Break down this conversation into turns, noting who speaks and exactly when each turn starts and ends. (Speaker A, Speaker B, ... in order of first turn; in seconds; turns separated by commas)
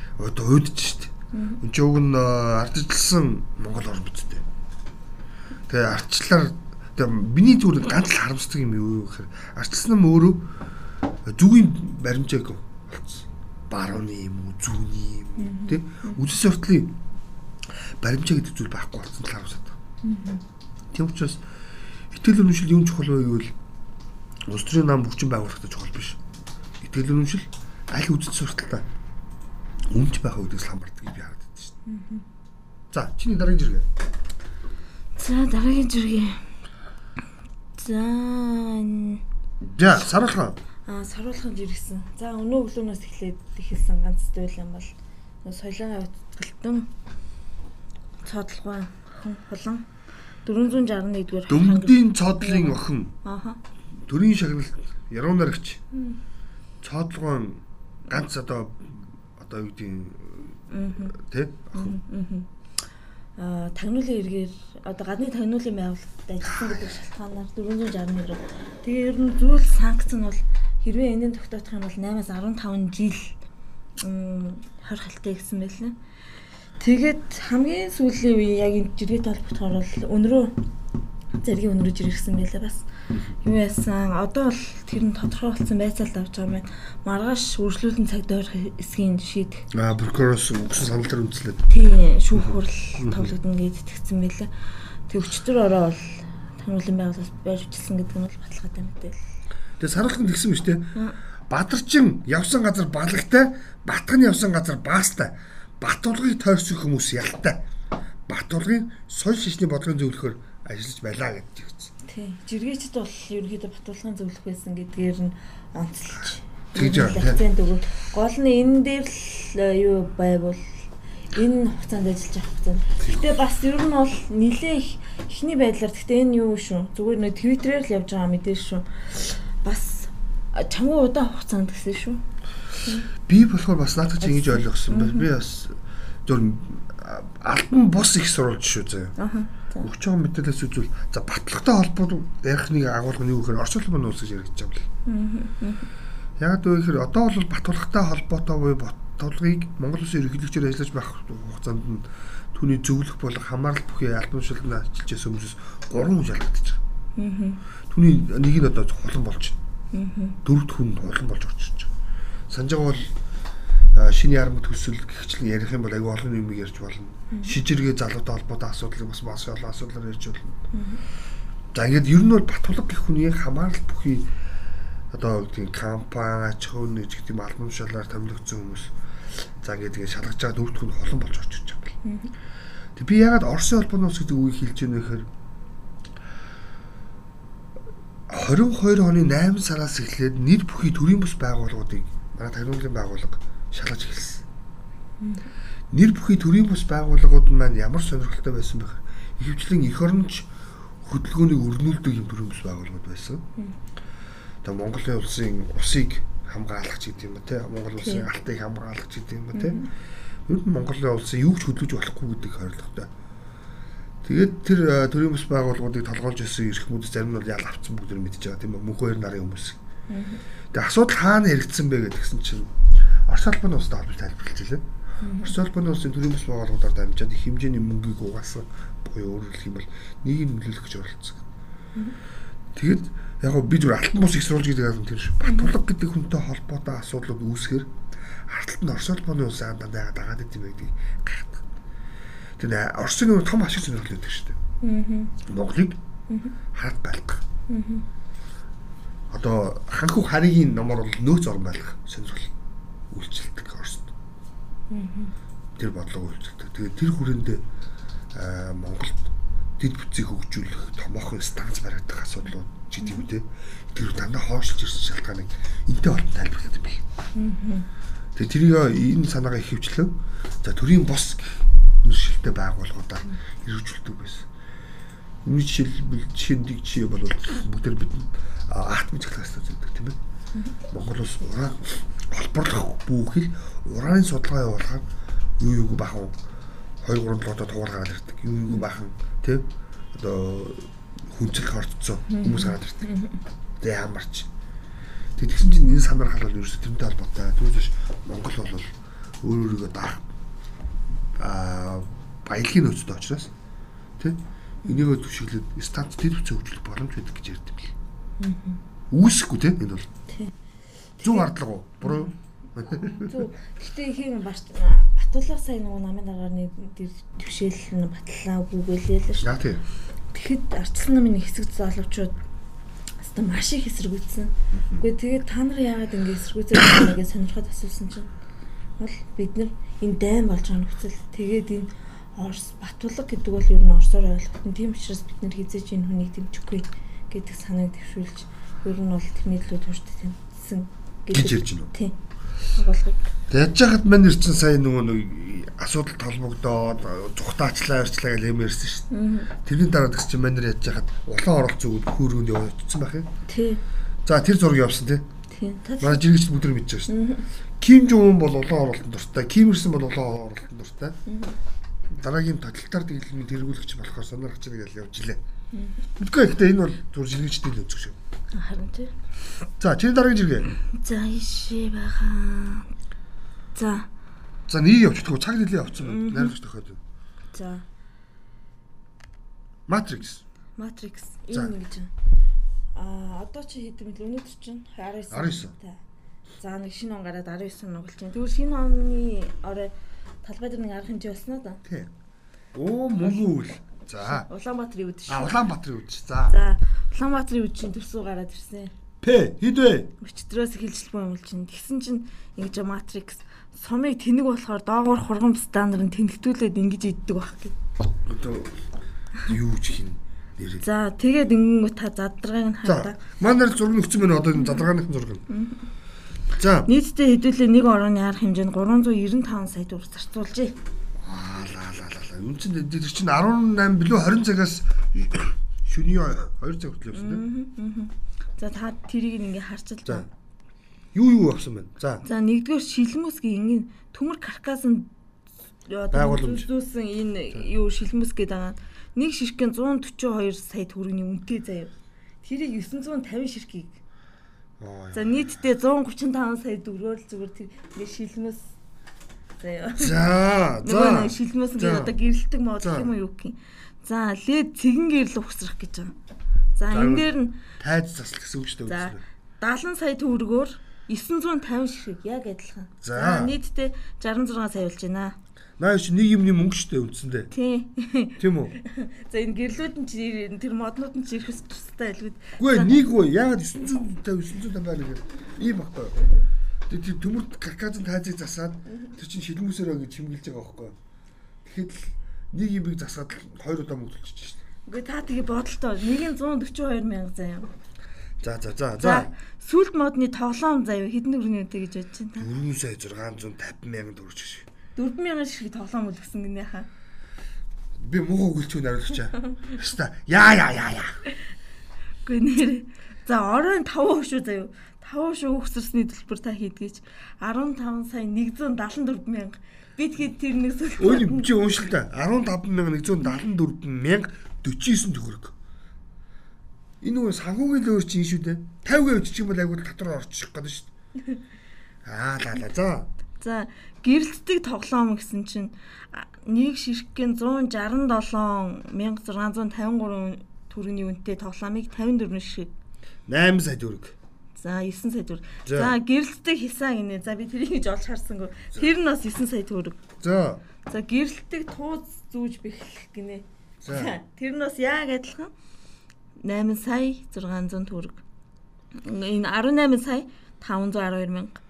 Speaker A: 0.2-4.4, Speaker B: 1.3-1.6, Speaker A: 5.7-10.5, Speaker A: 11.2-17.0, Speaker B: 15.4-16.2, Speaker A: 17.8-19.8, Speaker B: 20.0-20.4, Speaker A: 20.9-21.4, Speaker A: 22.1-23.5, Speaker A: 24.5-26.2, Speaker A: 26.8-28.9, Speaker A: 29.9-31.7, Speaker B: 31.9-32.2, Speaker A: 32.9-33.9, Speaker B: 35.2-36.5, Speaker B: 37.8-39.2, Speaker A: 39.7-40.6, Speaker B: 40.9-46.9, Speaker B: 48.2-49.9, Speaker B: 50.5-53.6, Speaker A: 51.5-53.1, Speaker A: 54.0-55.8, Speaker B: 55.9-56.2, Speaker A: 56.8-61.9, Speaker B: 60.7-61.2, Speaker B: 61.8-62.5, Speaker B: 63.4-73.4, Speaker A: 66.4-67.0, Speaker B: 74.0-76.0, Speaker B: 76.8-80.5, Speaker B: 81.4-82.9, Speaker B: 83.4-89.7, Speaker A: 89.7-91.7, Speaker B: 91.7-94.5, Speaker A: 92.3-93.3, Speaker B: 95.1-99.2, Speaker A: 99.8-100.9, Speaker A: 101.5-107.6, Speaker A: 108.3-111.9, Speaker B: 112.0-132.2, Speaker A: 116.7-117.4, Speaker B: 132.8-133.1, Speaker A: 133.2-139.1, Speaker B: 134.2-135.3, Speaker B: 139.2-139.9, Speaker A: 139.8-144.9, Speaker B: 145.1-145.9, Speaker A: 146.4-156.8, Speaker B: 157.2-157.6, Speaker A: 157.9-159.6, Speaker B: 159.9-160.4, Speaker A: 160.4-161.9, Speaker A: 162.5-163.1, Speaker A: 163.9-170.6, Speaker B: 170.7-171.0, Speaker A: 171.7-174.3, Speaker A: 175.1-181.9, Speaker B: 182.0-182.3, Speaker A: 182.9-185.3, Speaker A: 188.3-194.4, Speaker A: 195.9-200.5, Speaker A: 201.0-203.4, Speaker A: 204.6-209.9, Speaker B: 208.0-208.3, Speaker B: 209.5-209.9, Speaker A: 210.4-213.1, Speaker A: 214.2-219.8, Speaker B: 220.1-220.4, Speaker A: 220.7-222.7, Speaker A: 223.2-224.9, Speaker B: 225.2-225.5, Speaker A: 225.4-231.4, Speaker A: 232.7-237.9, Speaker B: 235.4-235.7, Speaker A: 238.4-241.6, Speaker A: 242.6-244.6, Speaker B: 244.8-245.4, Speaker A: 245.4-246.0, Speaker A: 246.7-247.4, Speaker B: 247.7-248.1, Speaker A: 249.3-252.5, Speaker A: 253.1-254.1, Speaker B: 254.9-255.3, Speaker A: 255.8-257.6, Speaker A: 258.3-267.0, Speaker B: 267.4-267.9, Speaker A: 268.4-274.5, Speaker A: 275.4-280.2, Speaker A: 280.9-285.0, Speaker A: 285.6-286.4, Speaker A: 287.0-293.1, Speaker B: 292.3-293.4, Speaker A: 293.8-294.5, Speaker A: 295.4-300.2, Speaker A: 301.4-303.5, Speaker A: 304.2-307.9, Speaker B: 308.4-308.8, Speaker A: 309.1-310.1, Speaker B: 310.3-310.5, Speaker B: 311.2-311.5, Speaker A: 311.2-313.4, Speaker B: 312.0-319.5, Speaker A: 319.4-319.8, Speaker B: 320.3-322.4, Speaker B: 323.2-328.3, Speaker A: 324.7-325.0, Speaker B: 329.0-342.1, Speaker A: 341.3-341.9, Speaker B: 342.7-343.3, Speaker A: 343.5-353.3, Speaker B: 349.1-349.5, Speaker B: 353.5-353.8, Speaker A: 354.2-355.2, Speaker B: 355.5-356.2, Speaker A: 356.0-357.1, Speaker B: 357.1-357.5, Speaker A: 357.8-361.2, Speaker B: 361.3-361.6, Speaker A: 362.1-365.4, Speaker B: 365.7-366.0, Speaker A: 366.2-368.2, Speaker B: 368.5-369.1, Speaker A: 369.8-370.7, Speaker B: 370.9-372.9, Speaker B: 373.7-374.1, Speaker A: 374.7-377.0, Speaker B: 376.0-376.5, Speaker B: 377.5-377.8, Speaker A: 379.9-380.4, Speaker B: 380.8-382.1, Speaker B: 382.9-386.0, Speaker A: 385.3-385.7, Speaker B: 386.6-389.9, Speaker B: 390.4-391.8, Speaker A: 391.9-392.1, Speaker A: 392.7-394.5, Speaker B: 393.2-393.5, Speaker B: 394.2-395.6, Speaker A: 395.3-396.6, Speaker B: 396.5-398.9, Speaker A: 399.2-400.1, Speaker B: 400.2-407.8, Speaker A: 408.2-408.8, Speaker A: 409.4-410.8, Speaker B: 410.8-413.2, Speaker A: 412.9-415.4, Speaker B: 415.5-415.8, Speaker A: 416.6-416.9, Speaker B: 416.9-420.8, Speaker A: 421.2-427.4, Speaker B: 427.1-430.3, Speaker A: 431.1-432.2, Speaker B: 432.2-435.1, Speaker B: 435.9-444.0, Speaker A: 436.1-436.7, Speaker A: 444.8-445.6, Speaker B: 445.1-448.7, Speaker B: 449.6-450.2, Speaker A: 450.0-452.1, Speaker B: 450.8-456.1, Speaker A: 452.8-453.1, Speaker B: 456.8-457.6, Speaker A: 456.9-459.2, Speaker B: 458.9-465.4, Speaker A: 463.0-463.6, Speaker A: 465.8-467.5, Speaker B: 467.5-472.9, Speaker A: 468.4-468.8, Speaker A: 472.6-476.2, Speaker A: 476.9-480.9, Speaker A: 481.6-484.6, Speaker B: 484.9-487.7, Speaker A: 488.4-489.3, Speaker B: 489.0-492.5, Speaker A: 492.4-494.7, Speaker B: 494.9-496.9, Speaker A: 498.0-501.2, Speaker B: 502.2-511.5, Speaker A: 511.0-515.6, Speaker A: 517.0-520.9, Speaker A: 522.0-523.1, Speaker B: 523.4-532.7, Speaker A: 533.3-534.1, Speaker B: 534.6-540.0, Speaker A: 535.6-535.9, Speaker A: 540.2-540.6, Speaker B: 540.9-545.5, Speaker A: 543.8-544.2, Speaker B: 546.4-548.2, Speaker B: 548.9-551.6